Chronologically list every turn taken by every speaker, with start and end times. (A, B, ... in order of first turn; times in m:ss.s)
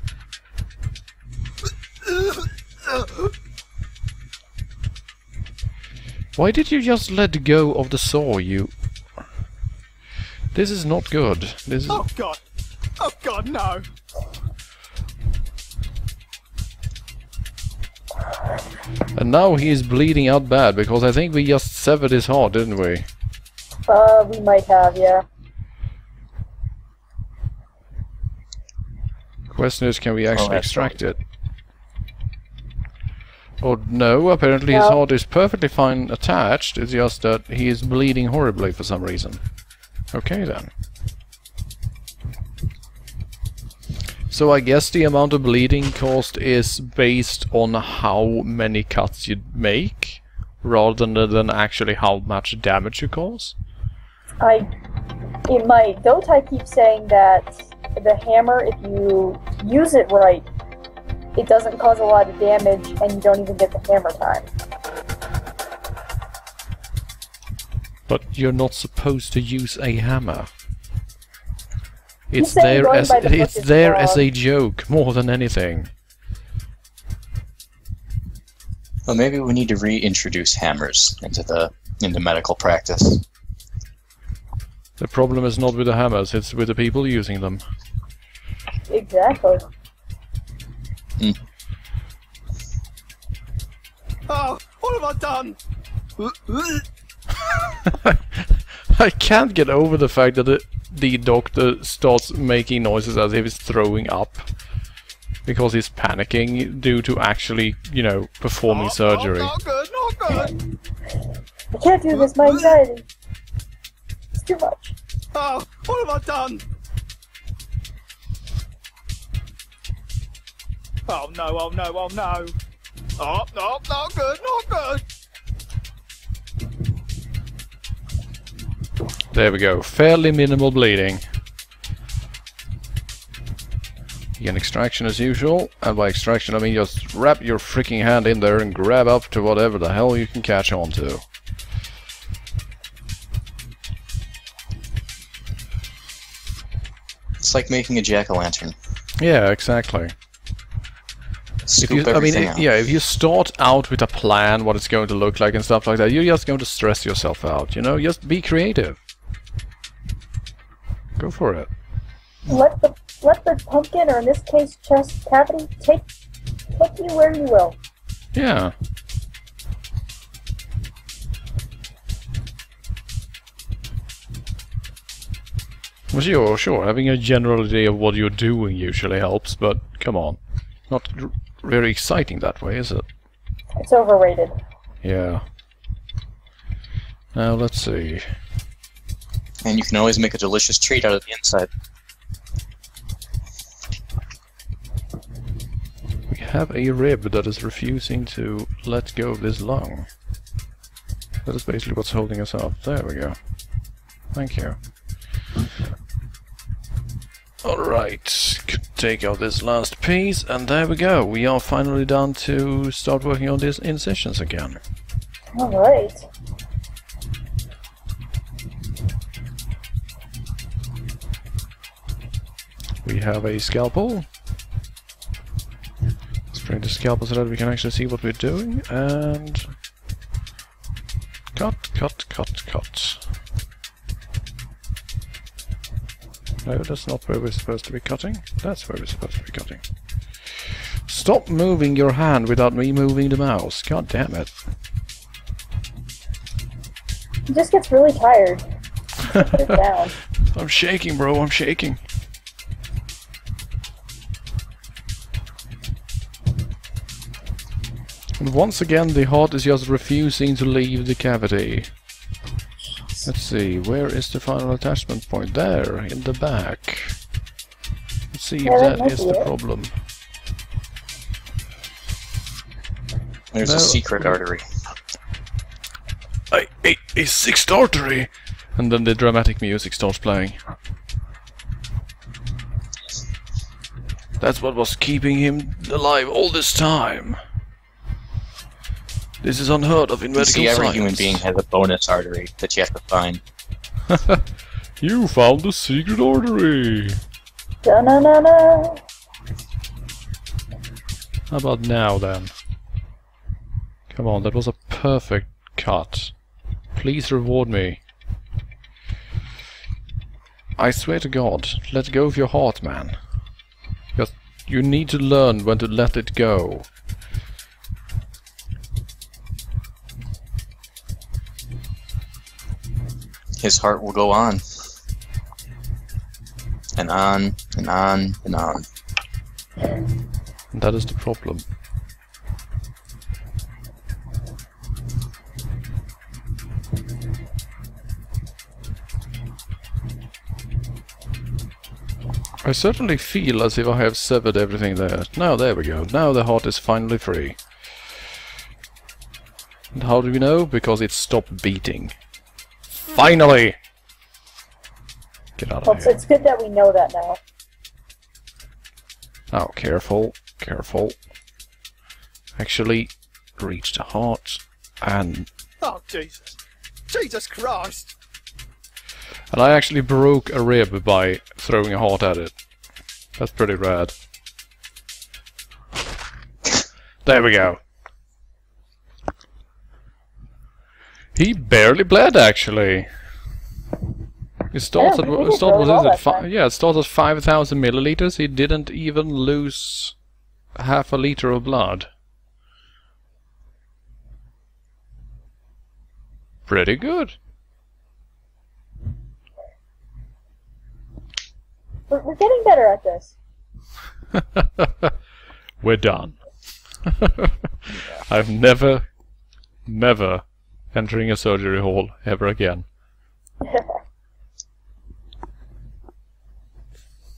0:02.0-0:03.3 A
0:06.4-0:08.7 B
0:10.5-0:12.0 B
0:11.9-0:12.4 A
0:13.0-0:13.8 A
0:19.1-0:23.1 B
0:23.9-0:25.2 C
0:29.5-0:31.2 B
0:30.3-0:31.0 D
0:33.6-0:39.4 B
0:34.7-0:35.0 C
0:40.1-0:40.7 B
0:44.3-0:53.5 B
0:54.4-0:54.7 C
0:55.4-1:00.5 C
1:01.4-1:04.5 C
1:08.1-1:10.5 B
1:12.3-1:15.9 B
1:12.4-1:14.2 C
1:19.1-1:23.2 D
1:25.0-1:27.6 B
1:28.9-1:29.6 C
1:34.3-1:35.6 A
1:36.2-1:36.8 A
1:37.5-1:37.8 A
1:37.8-1:44.5 B
1:45.4-1:49.5 B
1:48.7-1:50.6 A
1:51.7-1:53.0 C
1:52.1-1:52.8 A
1:54.4-1:54.9 C
1:55.3-1:56.6 A
2:01.1-2:02.5 A
2:03.2-2:05.0 A
2:09.3-2:11.2 B
2:14.4-2:21.2 B
2:27.4-2:28.7 D
2:29.2-2:30.1 B
2:31.6-2:32.6 D
2:31.8-2:39.0 B
2:41.2-2:41.7 B
2:42.5-2:46.0 C
2:46.8-2:47.8 C
2:48.3-2:48.7 B
2:56.1-3:00.4 B
3:00.9-3:03.0 B
3:03.8-3:04.5 C
3:05.0-3:05.4 B
3:07.3-3:08.2 B
3:09.6-3:11.7 D
3:16.3-3:20.1 B
3:21.4-3:23.4 B
3:24.3-3:24.8 B
3:27.6-3:34.8 B
3:35.5-3:36.3 C
3:43.0-3:44.3 B
3:46.5-3:49.7 B
3:51.5-3:53.2 B
3:56.6-3:59.8 B
4:01.0-4:04.5 B
4:07.5-4:08.6 C
4:09.2-4:10.1 C
4:09.4-4:09.8 B
4:10.5-4:12.0 B
4:18.4-4:21.9 B
4:23.2-4:27.2 B
4:28.3-4:29.9 B
4:28.6-4:29.5 C
4:33.5-4:34.6 D
4:33.6-4:34.4 B
4:36.5-4:40.6 B
4:44.4-4:47.4 B
4:49.4-4:51.4 B
4:50.4-4:53.4 D
4:54.1-4:54.4 B
4:55.0-4:57.2 B
4:57.8-4:59.0 C
5:01.5-5:02.5 B
5:04.1-5:06.3 B
5:06.9-5:08.0 B
5:10.8-5:13.2 B
5:14.2-5:16.9 B
5:23.6-5:24.6 D
5:27.0-5:28.8 D
5:30.7-5:31.6 B
5:42.6-5:47.6 B
5:49.9-5:52.1 B
5:53.0-5:53.8 B
5:55.6-5:56.2 B
5:55.8-5:57.4 C
5:59.5-6:01.2 B
6:02.6-6:05.5 B
6:05.8-6:06.5 A
6:07.1-6:08.1 A
6:09.5-6:12.5 B
6:13.4-6:14.1 B
6:17.2-6:17.8 B
6:21.3-6:23.1 B
6:24.7-6:30.1 B
6:25.0-6:26.4 C
6:30.7-6:32.1 B
6:36.7-6:37.4 B
6:42.1-6:43.4 C
6:44.3-6:45.1 B
6:45.8-6:46.4 B
6:47.0-6:49.0 B
6:49.8-6:52.8 B
6:53.6-6:54.0 C